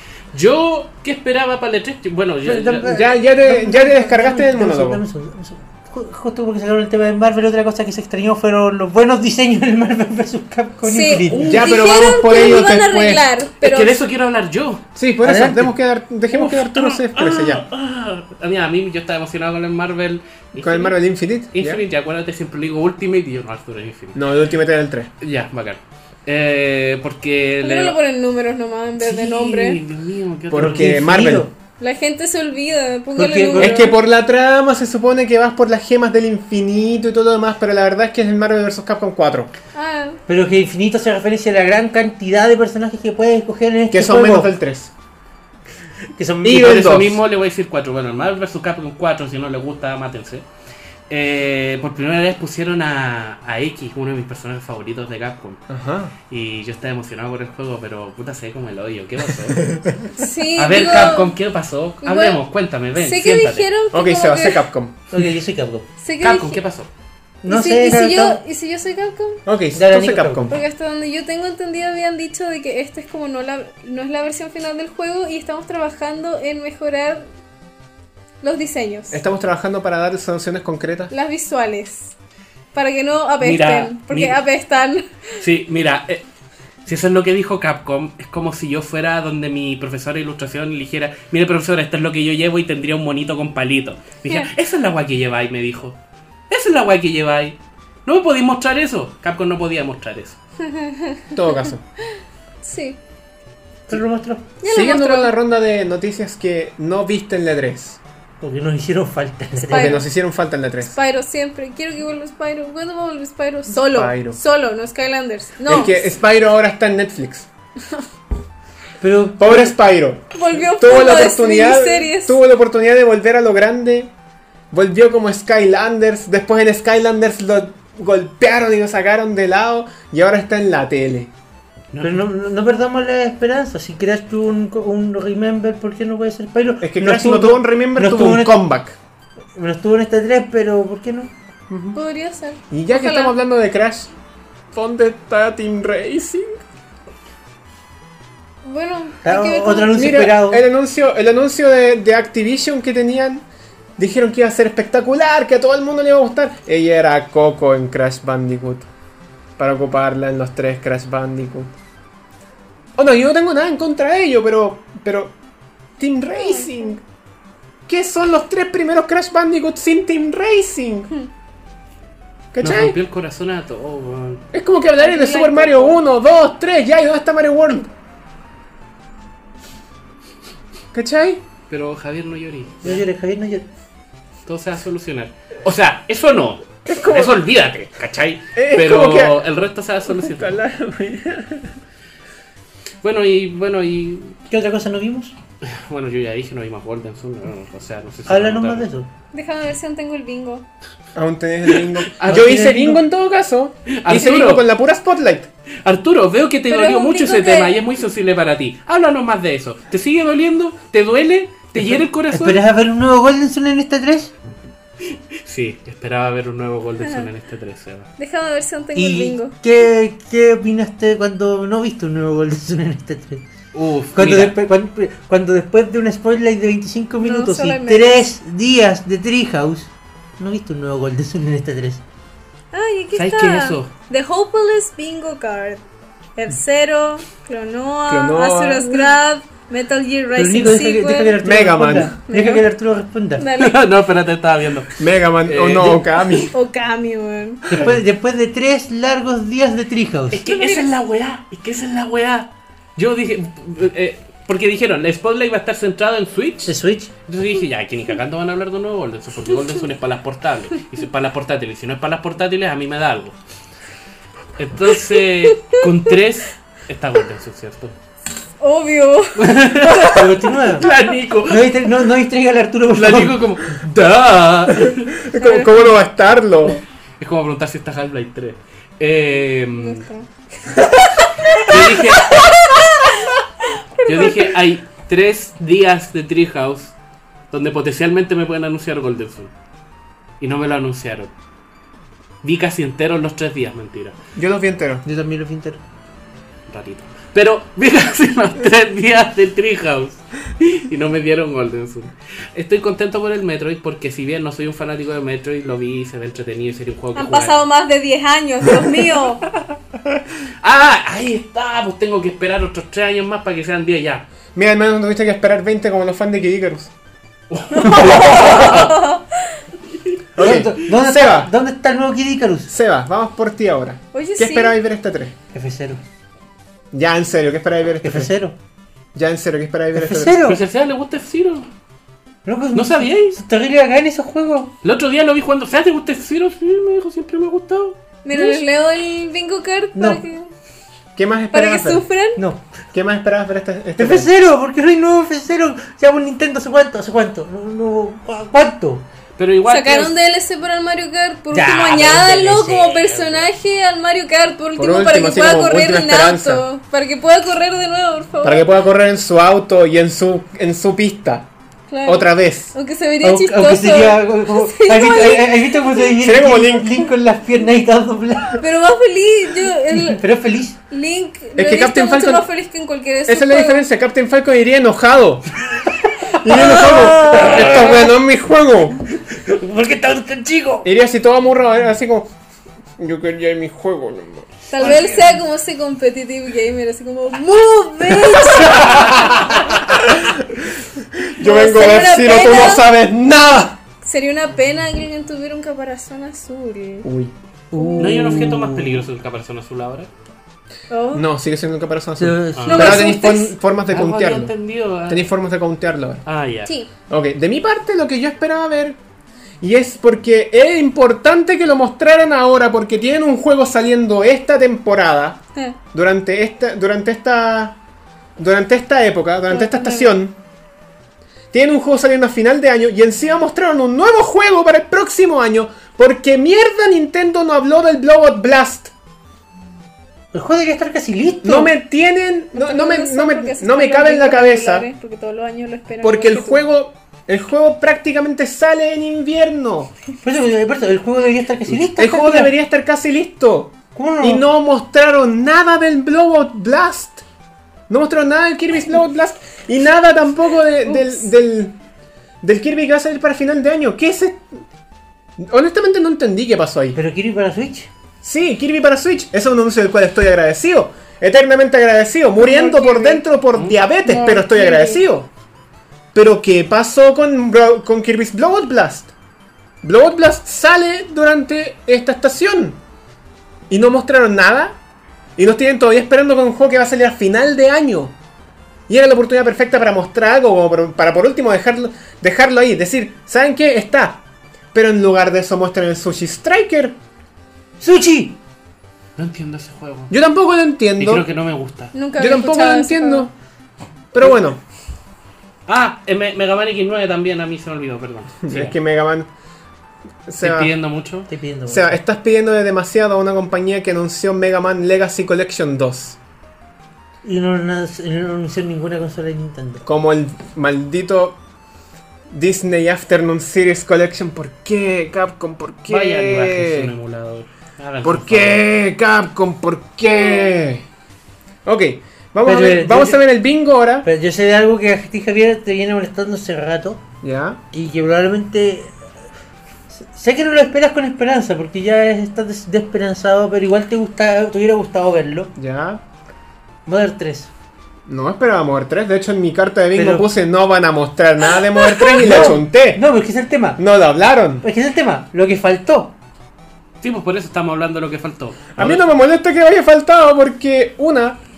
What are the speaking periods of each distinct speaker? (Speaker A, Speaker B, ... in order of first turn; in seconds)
Speaker A: 0.3-2.9, 11.3-11.7, 13.6-14.8, 16.3-21.0, 21.5-24.2, 25.2-28.0, 29.0-31.0, 46.5-50.5, 51.1-55.6, 56.3-59.7, 60.6-63.7, 66.2-66.9, 83.4-84.4, 85.4-86.2, 86.8-96.0, 96.5-100.4, 131.9-132.3, 172.6-174.4, 181.7-183.0, 184.5-190.6, 193.0-194.4, 195.6-198.9, 201.8-202.5, 204.0-204.7, 205.8-212.6, 215.4-218.1, 223.7-224.6, 233.1-233.9, 243.6-246.5, 250.3-256.8, 257.3-263.4, 264.6-267.9, 269.4-271.9, 272.9-275.1, 277.2-280.1, 281.6-282.8, 284.1-286.9, 287.5-289.5, 290.4-291.3, 292.4-294.1, 296.7-307.6, 308.7-309.1, 310.6-314.3, 317.5-318.9, 330.4-331.7, 332.7-333.4, 334.8-338.0, 349.4-350.1, 398.0-400.1, 402.6-403.1, 403.9-405.3, 406.3-406.7, 489.2-490.1, 491.0-491.9, 495.7-498.8, 500.4-501.3, 515.9-518.6, 547.0-549.1
Speaker B: 2.4-11.6, 15.2-15.7, 30.5-31.5, 33.2-33.9, 40.3-44.5, 46.2-46.9, 65.1-65.9, 67.4-68.4, 69.7-70.5, 103.9-104.5, 108.4-110.0, 119.0-119.8, 132.0-138.6, 139.6-141.3, 149.2-150.6, 182.8-183.7, 194.5-195.3, 198.3-199.1, 202.3-203.0, 211.8-214.3, 218.9-223.5, 224.2-232.0, 240.3-243.5, 247.7-250.4, 256.7-257.1, 270.0-270.9, 271.5-273.4, 295.1-295.8, 320.4-322.7, 325.5-326.0, 328.0-328.6, 329.9-330.6, 332.4-334.7, 338.3-338.6, 339.9-340.2, 342.4-342.7, 344.0-349.1, 351.5-353.3, 363.2-368.6, 369.9-370.8, 376.4-378.1, 379.2-380.9, 384.8-385.3, 397.7-399.0, 402.2-403.1, 430.3-431.7, 440.2-442.5, 443.9-444.5, 456.9-457.9, 487.8-488.4, 501.3-502.0, 507.2-509.8, 522.4-523.2, 524.0-527.0, 527.7-528.9, 529.9-535.5, 536.9-537.5, 540.0-540.3, 542.2-543.8, 544.6-546.1
Speaker C: 2.9-5.0, 11.4-13.3, 15.0-17.6, 20.6-21.8, 24.1-25.1, 30.5-31.5, 33.5-39.5, 43.9-44.9, 46.4-47.2, 55.7-56.1, 59.7-60.0, 63.9-65.0, 69.5-70.6, 79.1-81.1, 101.3-101.8, 104.6-108.0, 109.7-111.0, 113.9-114.4, 115.7-117.5, 119.4-124.1, 124.7-131.3, 136.8-139.0, 141.7-142.0, 142.7-144.1, 144.7-146.6, 149.9-153.4, 154.0-158.9, 159.6-161.7, 163.0-165.3, 166.0-167.0, 167.9-171.1, 172.5-173.0, 174.5-177.9, 180.9-181.4, 186.9-187.4, 188.6-189.4, 190.1-191.8, 201.2-205.5, 238.1-239.1, 241.4-242.2, 245.0-246.5, 275.2-276.8, 294.4-295.0, 314.6-316.9, 320.4-321.5, 322.7-325.4, 326.9-328.3, 329.1-330.4, 341.2-342.1, 342.9-344.3, 354.8-356.6, 358.4-361.5, 362.1-362.7, 366.2-367.1, 371.6-372.5, 373.3-375.6, 376.4-379.0, 380.8-382.3, 383.0-384.9, 389.0-393.8, 397.0-397.3, 401.1-404.5, 405.1-406.2, 407.1-409.0, 409.6-415.4, 415.9-417.8, 418.4-420.4, 421.5-428.9, 431.4-434.9, 436.0-439.9, 442.0-447.2, 447.9-451.8, 452.4-454.5, 455.4-457.0, 458.2-465.3, 466.1-469.1, 469.8-472.8, 473.7-474.8, 475.4-478.1, 478.9-484.2, 484.7-487.0, 490.1-491.3, 492.2-493.3, 494.1-494.6, 498.4-499.3, 500.3-500.7, 501.7-506.2, 509.8-511.4, 512.3-516.9, 518.0-520.9, 521.6-524.1, 527.2-527.6, 535.6-536.0, 538.1-543.0, 543.8-544.6, 548.8-551.4
Speaker D: 10.9-14.0, 27.6-29.8, 31.8-33.9, 39.7-40.2, 60.2-61.4, 62.0-62.4, 63.0-64.6, 66.0-66.6, 67.5-69.4, 70.5-77.3, 78.4-79.2, 81.1-82.1, 82.7-85.2, 100.6-101.6, 102.6-103.0, 104.6-105.3, 109.7-110.1, 110.9-116.1, 120.3-122.4, 141.9-143.3, 148.6-150.0, 166.3-166.9, 175.0-176.0, 199.3-200.7, 206.7-207.8, 217.0-217.3, 218.2-219.5, 227.2-228.3, 232.7-235.8, 236.4-241.4, 242.3-242.7, 243.4-243.8, 246.5-247.8, 250.4-250.9, 265.4-265.9, 268.6-270.1, 275.4-275.9, 279.8-283.3, 284.0-284.5, 307.1-309.4, 317.7-319.6, 324.1-324.8, 338.2-340.5, 341.5-342.4, 349.7-358.7, 361.9-366.1, 368.6-370.2, 370.9-373.9, 384.7-389.6, 391.4-392.9, 394.0-397.1, 397.8-398.5, 400.9-401.2, 402.7-403.5, 419.5-420.2, 432.6-436.6, 450.9-451.3, 462.4-463.2, 464.0-465.0, 491.9-493.3, 542.1-542.4